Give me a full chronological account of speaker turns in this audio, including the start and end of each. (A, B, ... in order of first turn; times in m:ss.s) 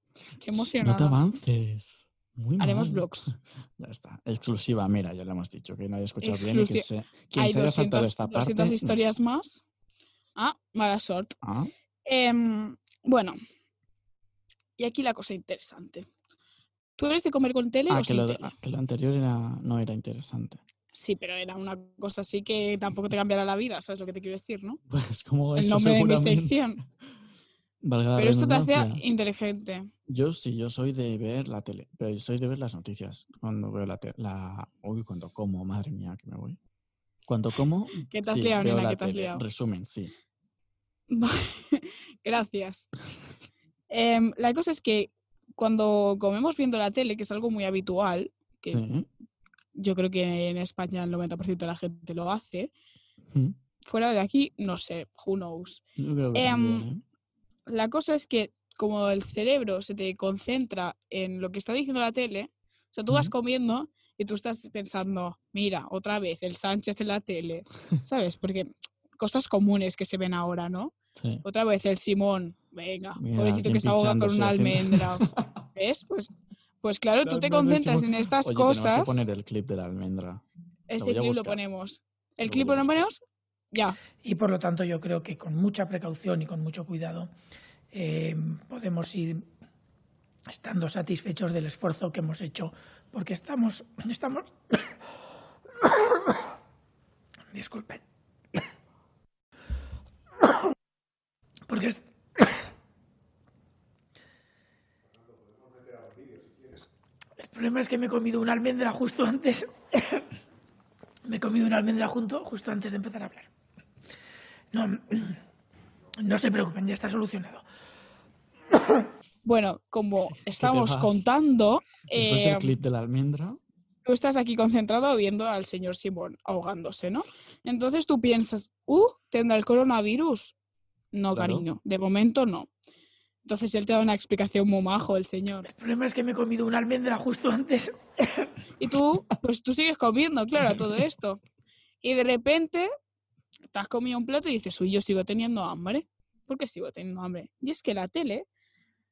0:00.4-0:01.2 A
0:00.5-0:09.0 B
0:02.6-0:03.3 A
0:06.2-0:09.6 A
0:10.4-0:11.4 A
0:11.4-0:11.7 B
0:12.0-0:13.4 A
0:14.8-0:16.1 A
0:17.0-0:18.5 A
0:17.9-0:20.6 B
0:20.9-0:24.8 A
0:24.9-0:26.6 B
0:25.5-0:26.8 A
0:27.8-0:29.0 B
0:28.2-0:29.9 A
0:30.1-0:36.6 B
0:37.3-0:40.1 B
0:38.0-0:39.4 A
0:41.1-0:42.9 A
0:43.9-0:48.8 A
0:48.7-0:49.1 B
0:49.7-0:52.7 A
0:53.3-0:53.6 B
0:53.8-0:55.8 A
0:56.0-0:57.0 B
0:56.3-0:56.9 A
0:57.7-1:16.3 A
1:11.1-1:11.4 B
1:13.2-1:15.5 B
1:16.8-1:19.2 A
1:17.2-1:20.4 B
1:20.9-1:23.2 A
1:21.0-1:21.6 B
1:22.4-1:23.0 B
1:23.7-1:24.0 A
1:24.2-1:27.3 C
1:27.9-1:29.4 C
1:30.5-1:34.8 C
1:35.8-1:36.4 C
1:37.5-1:38.0 C
1:41.7-1:42.5 C
1:45.8-1:46.8 C
1:47.4-1:50.2 C
1:51.2-1:53.5 C
1:54.7-1:55.4 C
1:56.2-1:57.6 C
1:58.7-1:59.1 C
1:59.4-2:02.7 A
2:00.2-2:01.3 B
2:02.1-2:03.6 B
2:04.0-2:10.5 A
2:11.1-2:12.7 A
2:11.3-2:11.7 B
2:13.4-2:15.7 A
2:15.6-2:18.5 C
2:18.8-2:21.4 A
2:20.7-2:21.0 B
2:22.0-2:22.9 A
2:23.7-2:28.5 A